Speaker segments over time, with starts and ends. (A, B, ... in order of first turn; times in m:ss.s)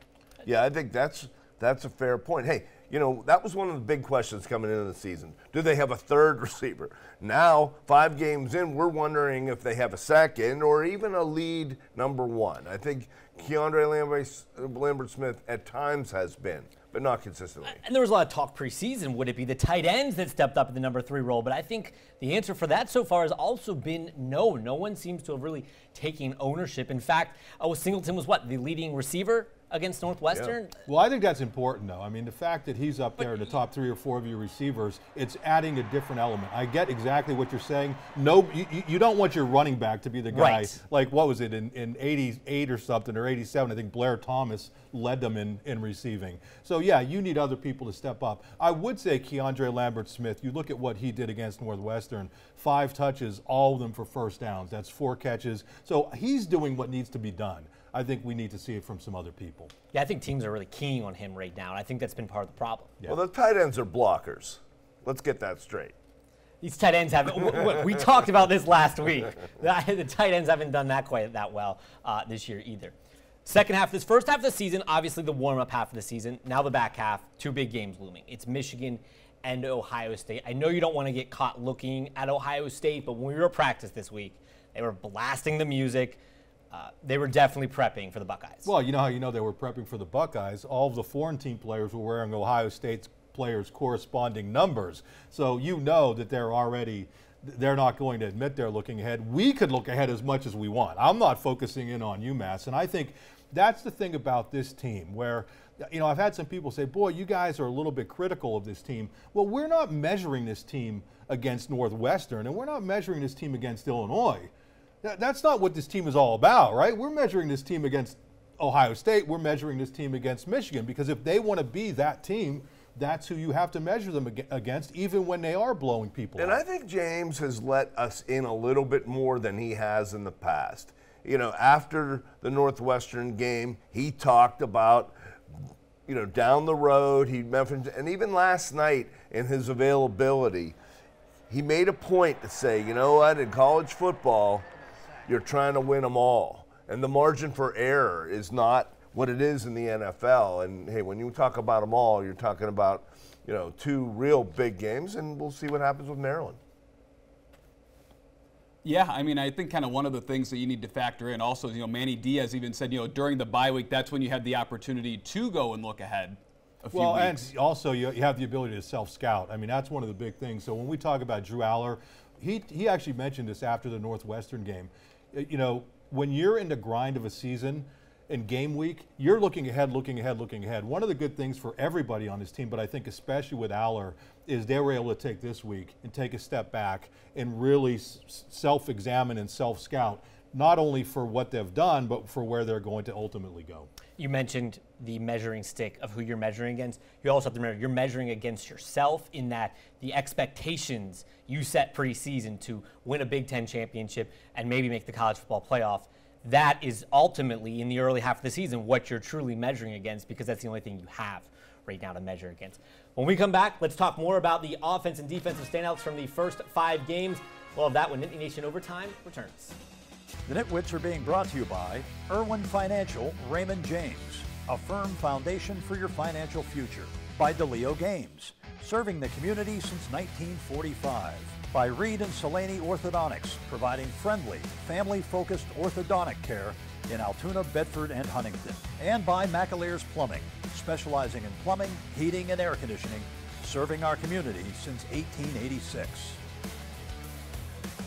0:00.4-0:17.8 A
0:17.7-0:30.8 B
0:30.9-0:59.7 C
0:40.3-0:40.8 B
0:59.9-1:03.0 B
1:03.0-1:06.0 A
1:06.6-1:12.9 B
1:13.4-1:26.2 B
1:26.7-1:28.7 B
1:28.6-2:06.6 C
2:06.4-2:15.2 A
2:16.1-2:20.8 A
2:21.5-2:24.7 A
2:25.3-2:36.6 A
2:38.8-2:47.5 D
2:46.9-3:13.9 C
3:14.2-3:39.8 B
3:40.5-4:06.4 E